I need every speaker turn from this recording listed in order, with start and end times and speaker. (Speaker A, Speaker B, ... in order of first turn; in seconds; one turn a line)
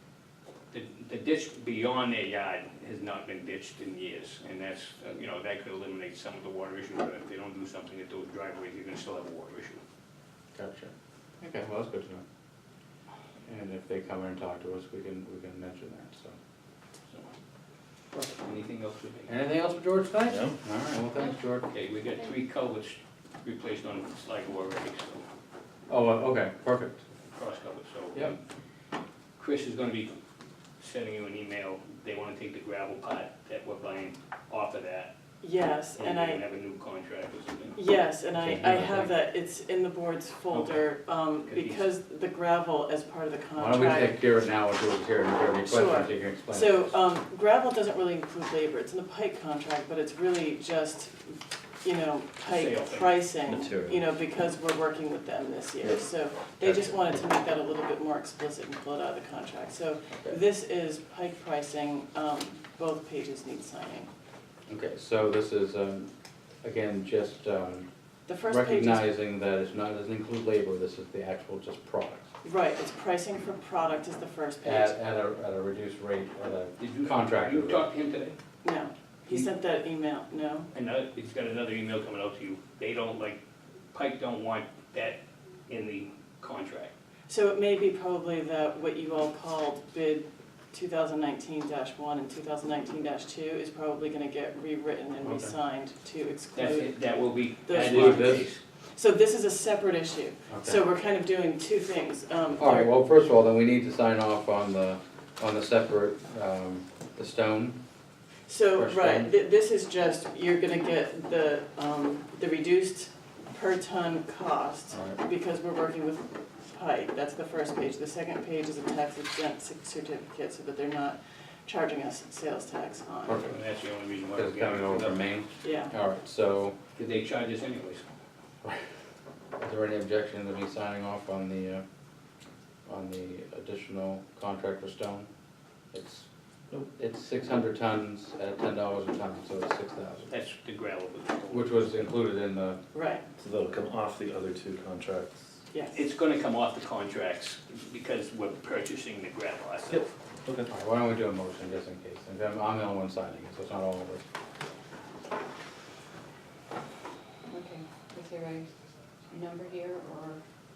Speaker A: 0.7-9.8
Speaker B: 10.5-12.2
Speaker B: 13.5-16.4
Speaker A: 18.4-19.4
Speaker B: 19.3-21.7
Speaker C: 20.3-20.6
Speaker A: 21.7-25.2
Speaker B: 25.9-27.0
Speaker A: 27.3-28.4
Speaker A: 29.4-30.1
Speaker A: 30.8-35.1
Speaker D: 35.4-36.4
Speaker A: 36.0-37.8
Speaker D: 37.8-44.2
Speaker B: 38.3-39.1
Speaker A: 40.5-41.9
Speaker B: 43.6-46.9
Speaker D: 45.6-64.1
Speaker A: 52.5-53.3
Speaker C: 53.4-54.1
Speaker C: 55.8-57.2
Speaker B: 64.7-66.1
Speaker B: 66.6-72.3
Speaker D: 68.3-69.1
Speaker D: 72.4-75.0
Speaker B: 74.6-77.9
Speaker A: 76.8-78.4
Speaker D: 78.6-80.7
Speaker A: 80.7-83.4
Speaker A: 83.9-86.9
Speaker D: 87.3-97.0
Speaker B: 95.2-95.5
Speaker A: 96.5-98.6
Speaker D: 97.7-103.0
Speaker B: 97.8-98.5
Speaker B: 100.5-100.8
Speaker B: 102.6-107.8
Speaker D: 108.5-123.5
Speaker B: 108.8-109.3
Speaker B: 114.9-115.2
Speaker B: 123.3-123.6
Speaker A: 123.4-125.3
Speaker B: 124.3-126.8
Speaker D: 125.6-125.9
Speaker A: 127.0-128.1
Speaker B: 129.6-131.8
Speaker B: 132.9-135.3
Speaker B: 135.9-136.3
Speaker B: 137.0-140.3
Speaker A: 140.3-142.1
Speaker B: 141.5-142.8
Speaker D: 142.9-143.2
Speaker C: 143.4-145.4
Speaker D: 145.7-146.1
Speaker A: 145.9-150.0
Speaker C: 149.9-150.7
Speaker B: 150.7-154.2
Speaker E: 157.5-158.7
Speaker E: 159.3-160.4